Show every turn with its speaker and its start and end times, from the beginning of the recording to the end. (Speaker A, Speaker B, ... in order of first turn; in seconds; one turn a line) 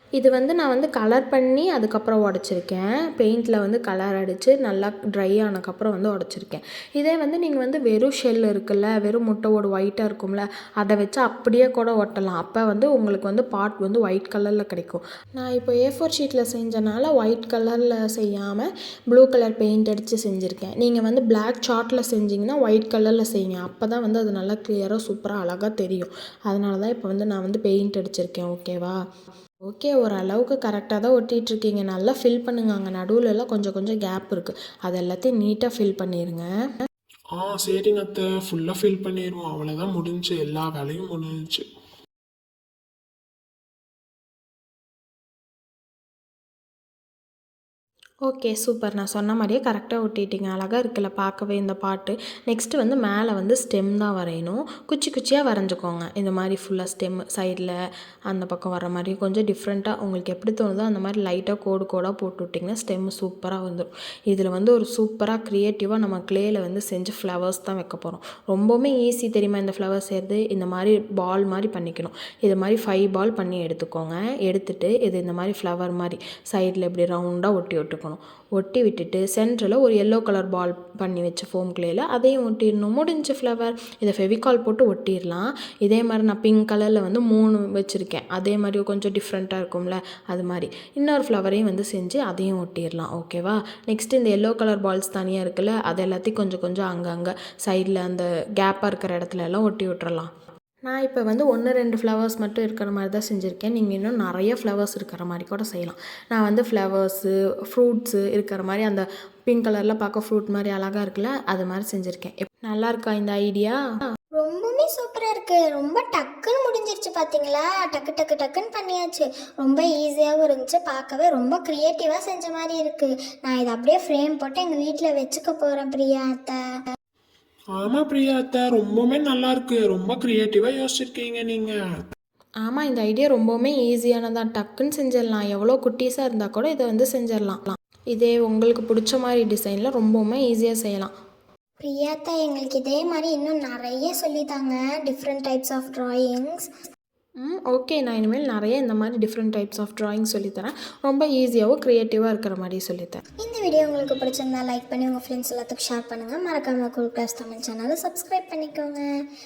Speaker A: 0.2-29.0
Speaker A: 29.7-36.5
Speaker B: 37.4-41.6
Speaker A: 48.3-57.7
Speaker A: 58.3-100.3
Speaker A: 100.8-113.8
Speaker C: 114.4-126.6
Speaker B: 127.8-131.7
Speaker A: 132.6-141.1
Speaker C: 141.8-146.7
Speaker A: 147.4-153.2
Speaker C: 153.4-159.0